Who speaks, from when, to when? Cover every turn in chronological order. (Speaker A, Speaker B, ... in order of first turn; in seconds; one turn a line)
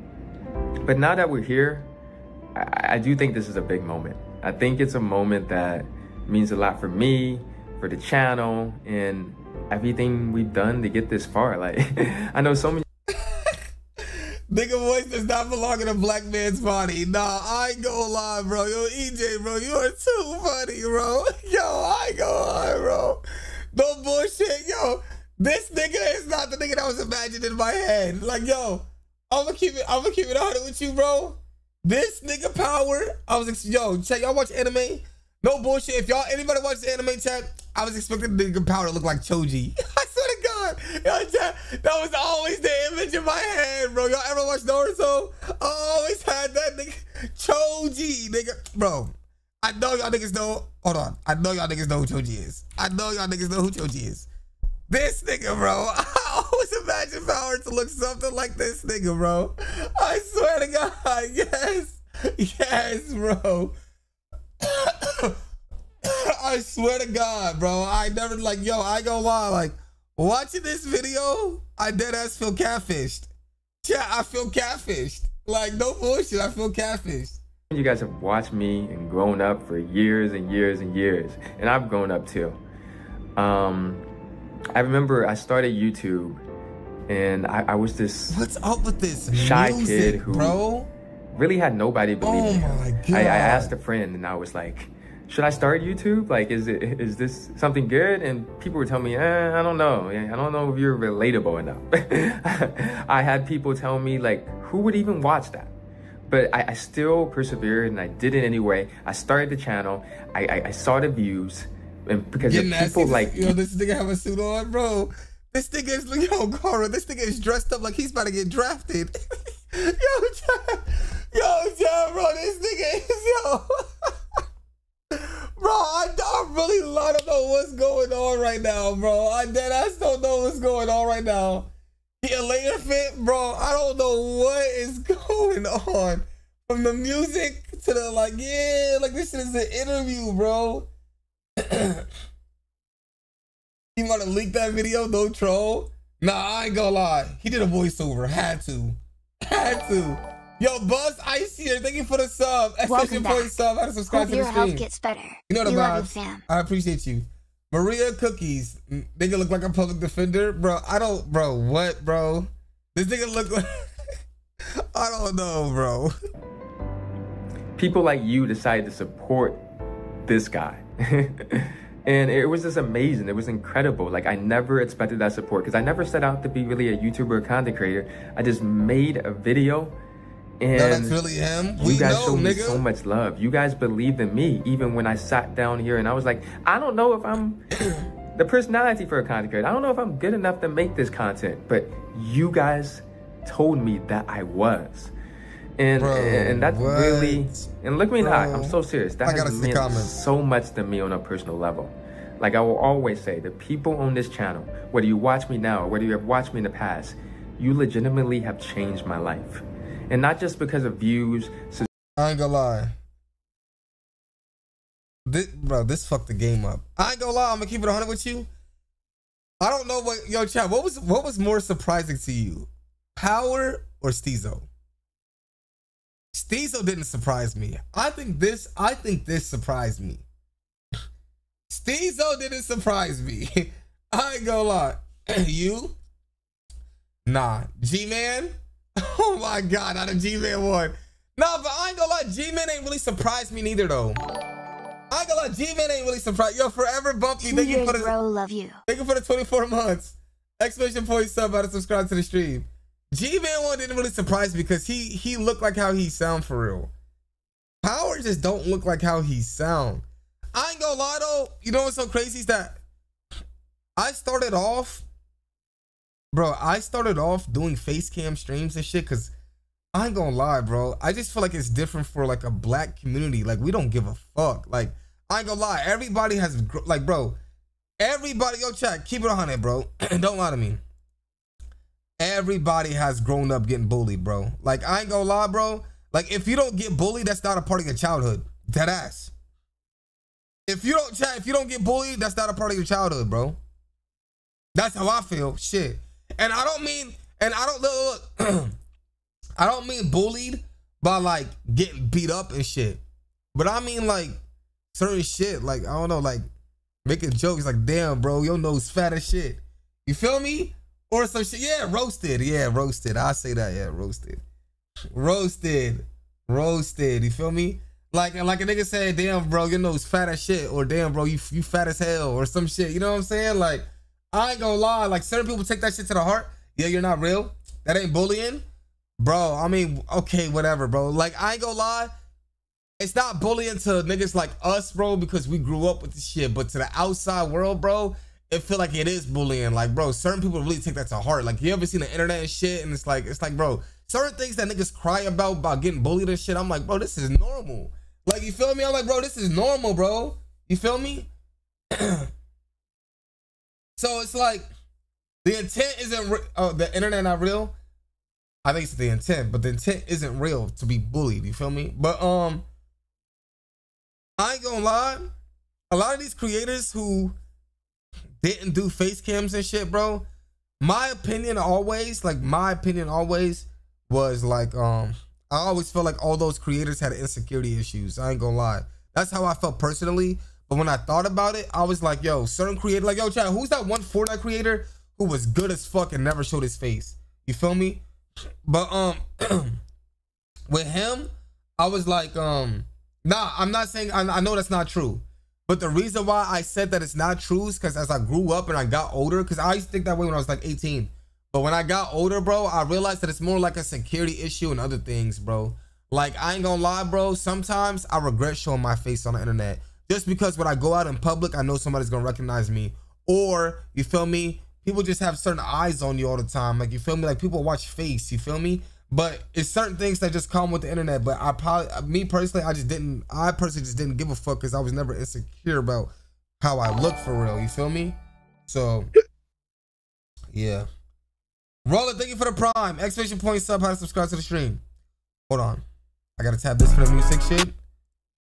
Speaker A: 0.8-1.9
Speaker A: 2.5-12.8
Speaker B: 13.1-13.6
Speaker B: 14.5-23.2
Speaker B: 23.7-54.3
Speaker B: 54.9-63.7
Speaker B: 64.6-65.4
Speaker B: 66.0-73.3
Speaker B: 73.8-77.4
Speaker A: 77.7-82.6
Speaker A: 83.4-84.0
Speaker A: 84.8-86.4
Speaker A: 87.1-88.4
Speaker B: 88.3-90.9
Speaker A: 89.3-90.6
Speaker A: 91.3-105.7
Speaker B: 92.2-93.7
Speaker A: 106.3-113.5
Speaker B: 112.5-124.0
Speaker B: 125.1-131.7
Speaker B: 132.2-140.9
Speaker B: 141.6-142.1
Speaker B: 143.9-154.8
Speaker C: 152.9-156.4
Speaker B: 155.5-163.7
Speaker B: 164.9-166.1
Speaker A: 167.8-169.6
Speaker A: 170.3-179.9
Speaker A: 180.6-181.2
Speaker B: 180.7-182.8
Speaker A: 181.8-187.6
Speaker A: 188.4-195.1
Speaker A: 195.8-211.9
Speaker B: 196.0-197.7
Speaker B: 198.2-200.1
Speaker B: 212.2-212.9
Speaker B: 215.3-218.5
Speaker B: 219.6-224.7
Speaker B: 226.3-230.2
Speaker B: 231.7-235.9
Speaker B: 237.2-244.2
Speaker B: 245.1-248.1
Speaker C: 247.4-248.8
Speaker B: 248.9-256.9
Speaker B: 257.8-262.8
Speaker B: 264.0-265.0
Speaker B: 266.3-269.3
Speaker B: 269.9-277.4
Speaker B: 278.0-280.8
Speaker B: 282.2-289.3
Speaker B: 290.7-293.6
Speaker B: 294.8-298.7
Speaker B: 299.6-303.0
Speaker B: 303.5-304.4
Speaker B: 304.9-306.4
Speaker B: 307.1-314.4
Speaker B: 315.1-328.6
Speaker B: 329.2-332.1
Speaker B: 333.0-351.3
Speaker B: 351.9-352.3
Speaker B: 354.0-354.7
Speaker B: 355.4-357.7
Speaker B: 358.6-362.6
Speaker B: 364.4-365.3
Speaker B: 365.9-367.3
Speaker B: 368.4-370.2
Speaker B: 370.8-388.0
Speaker B: 388.6-389.8
Speaker B: 390.7-429.1
Speaker B: 430.5-430.9
Speaker B: 431.9-434.8
Speaker B: 435.5-435.8
Speaker B: 436.4-437.8